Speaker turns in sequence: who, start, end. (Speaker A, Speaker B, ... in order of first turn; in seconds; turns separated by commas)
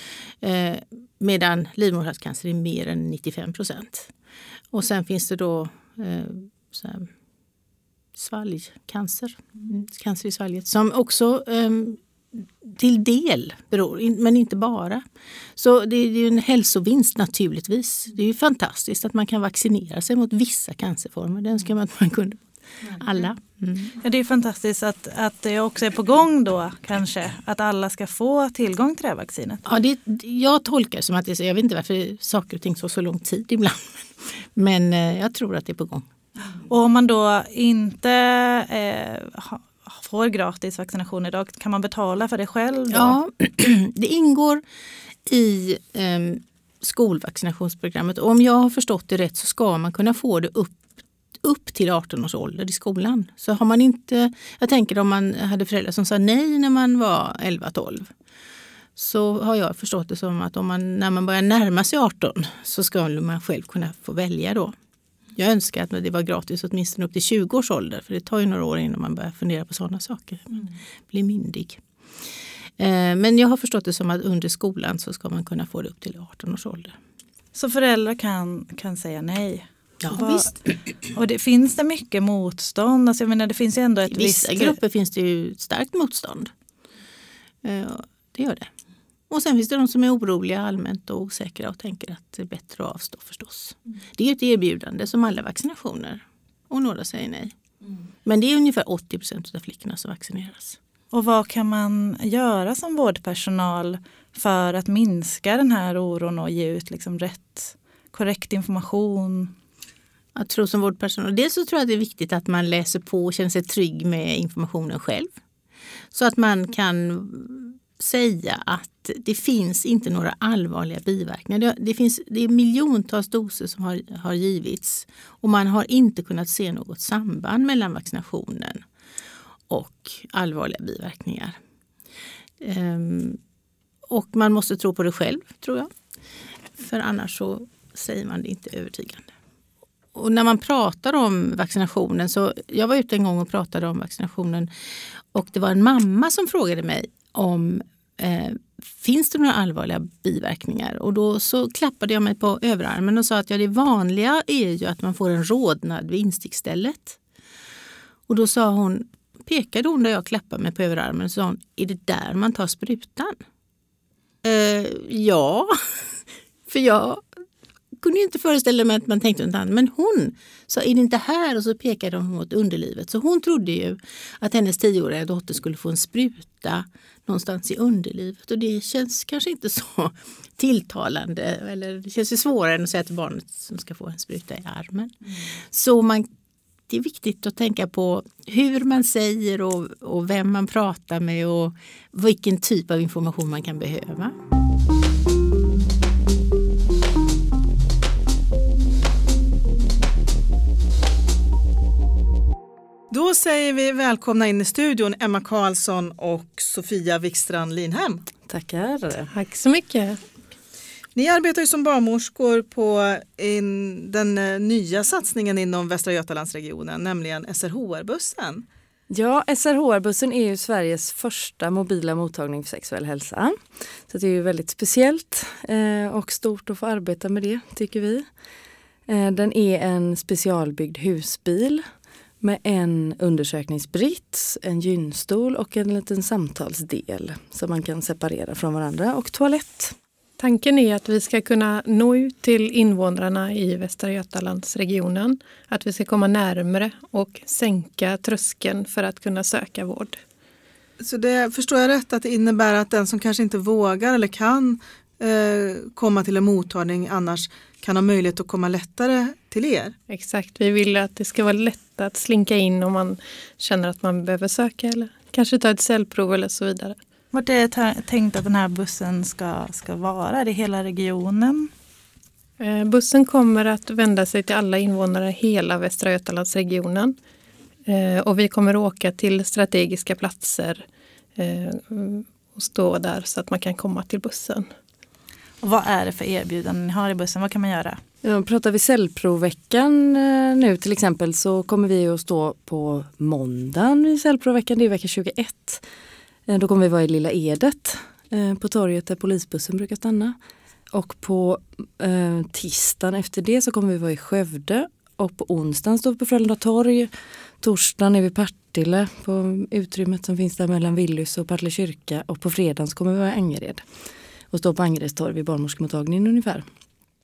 Speaker A: 0.4-4.1, Speaker A: 4.7-7.1, Speaker A: 8.2-15.0, Speaker A: 15.6-23.9, Speaker B: 24.0-29.6, Speaker A: 29.7-36.1, Speaker B: 36.7-43.2, Speaker A: 42.9-44.6, Speaker A: 45.3-50.9, Speaker A: 51.4-58.1, Speaker A: 59.0-64.8, Speaker A: 65.3-71.8, Speaker A: 72.8-77.0, Speaker B: 77.5-80.6, Speaker A: 80.0-80.5, Speaker B: 81.1-84.8, Speaker A: 84.1-86.5, Speaker A: 87.6-88.7, Speaker A: 89.3-97.5, Speaker A: 98.2-100.8, Speaker B: 101.1-109.5, Speaker A: 110.3-115.3, Speaker A: 116.1-128.8, Speaker A: 129.7-131.6, Speaker A: 132.6-133.4, Speaker A: 134.1-135.9, Speaker A: 136.8-139.3, Speaker A: 140.2-144.7, Speaker A: 145.3-157.2, Speaker A: 158.3-163.4, Speaker A: 164.4-165.8, Speaker A: 166.7-167.2, Speaker A: 168.0-186.3, Speaker A: 186.9-194.3, Speaker C: 203.1-208.2, Speaker D: 208.5-209.3, Speaker E: 209.3-210.2, Speaker C: 211.1-218.6, Speaker D: 219.1-228.3, Speaker D: 229.1-231.9, Speaker D: 232.4-239.9, Speaker E: 240.4-250.2, Speaker C: 251.0-259.9, Speaker E: 260.1-267.0, Speaker B: 267.3-271.7, Speaker E: 272.6-277.2, Speaker E: 277.9-284.7, Speaker B: 285.6-288.0, Speaker D: 288.2-295.9, Speaker D: 296.5-300.4, Speaker D: 300.9-313.9, Speaker D: 314.5-316.7